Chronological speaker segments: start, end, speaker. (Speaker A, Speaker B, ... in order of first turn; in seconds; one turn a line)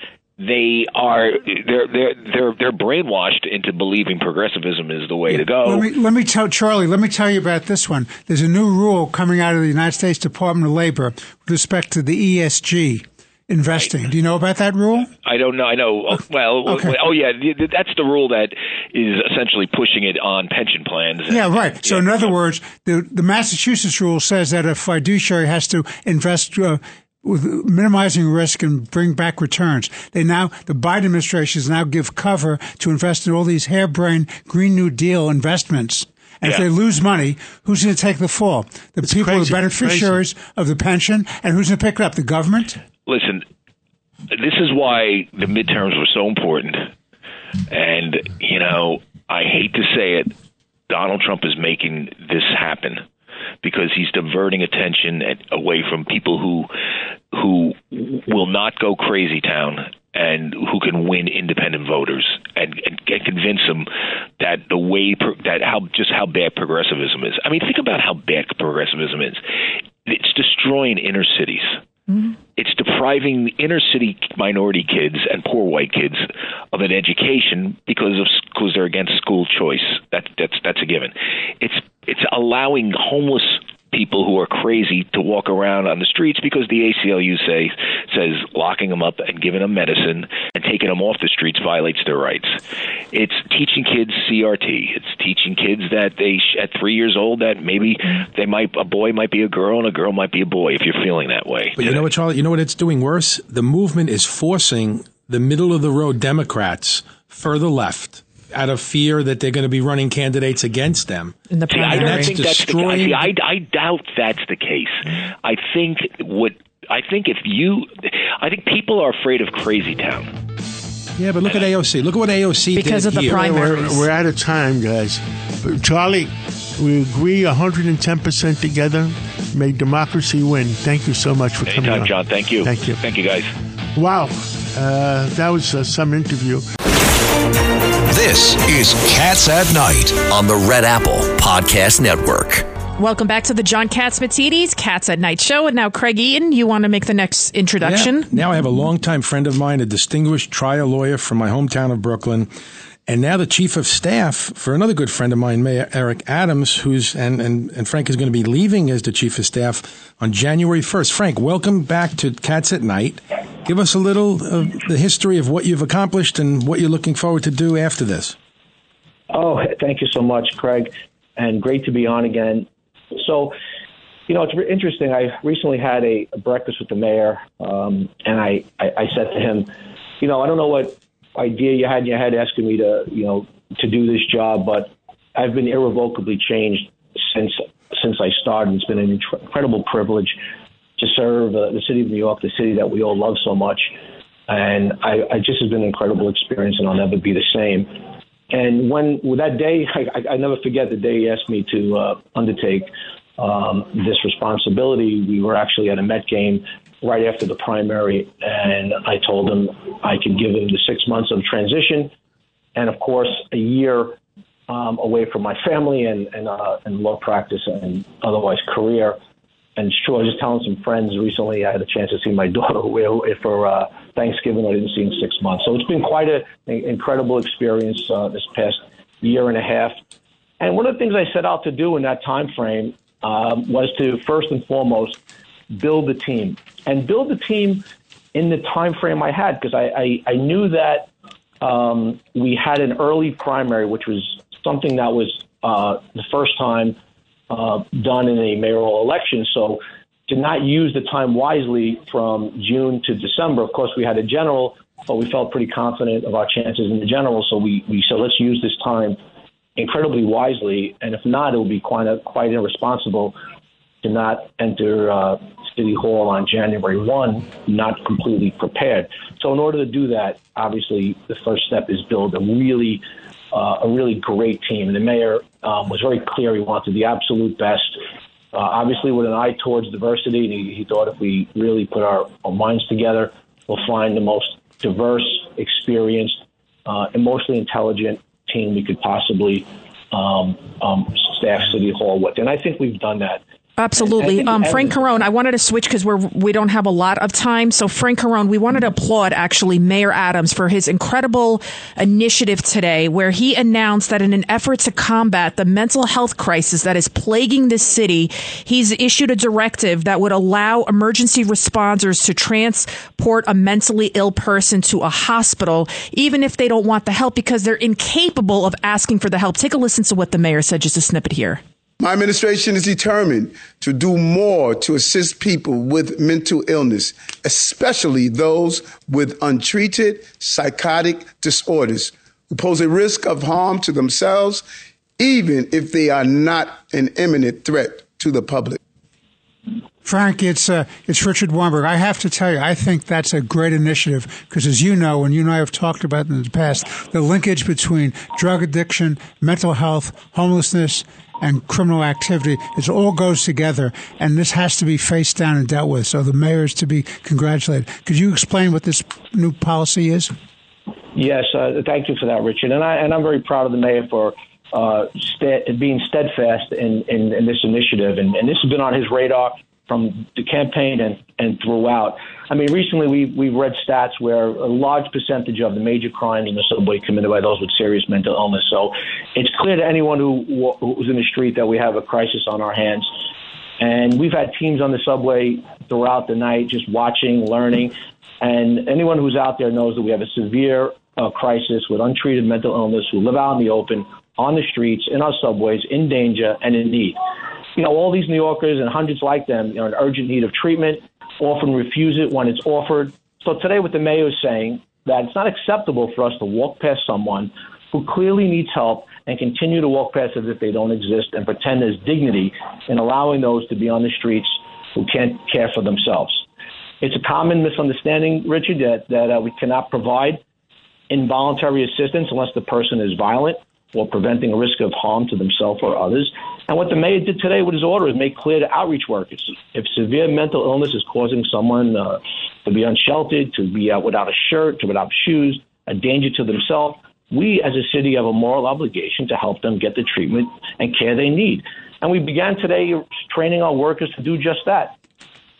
Speaker A: 0.4-5.9
Speaker B: 5.3-15.1
Speaker A: 13.7-14.0
Speaker A: 15.2-22.3
Speaker B: 16.6-16.9
Speaker B: 21.3-42.8
Speaker C: 39.0-40.2
Speaker A: 43.1-43.5
Speaker A: 44.3-46.9
Speaker A: 47.7-50.3
Speaker A: 50.9-53.0
Speaker A: 53.6-56.7
Speaker A: 57.3-69.4
Speaker A: 70.1-71.8
Speaker A: 72.5-92.6
Speaker A: 93.1-102.1
Speaker D: 101.8-113.3
Speaker E: 111.5-112.4
Speaker A: 111.7-120.3
Speaker D: 121.2-123.4
Speaker E: 122.7-124.0
Speaker C: 123.3-133.0
Speaker A: 131.7-133.5
Speaker C: 134.0-136.7
Speaker F: 138.1-142.7
Speaker E: 143.0-148.3
Speaker D: 147.8-152.5
Speaker D: 153.1-168.4
Speaker G: 169.3-173.6
Speaker G: 174.3-190.4
Speaker G: 191.0-193.9
Speaker G: 194.5-212.1
Speaker G: 212.8-219.2
Speaker G: 219.8-230.0
Speaker G: 230.6-241.1
Speaker G: 241.6-247.0
Speaker G: 247.5-259.2
Speaker G: 259.8-263.4
Speaker G: 264.0-293.4
Speaker E: 293.8-321.6
Speaker G: 294.0-295.0
Speaker H: 322.0-334.7
Speaker H: 335.2-338.8
Speaker B: 340.0-360.3
Speaker G: 361.1-383.1
Speaker G: 383.8-397.2
Speaker G: 397.8-416.5
Speaker G: 417.0-420.4
Speaker G: 421.1-445.0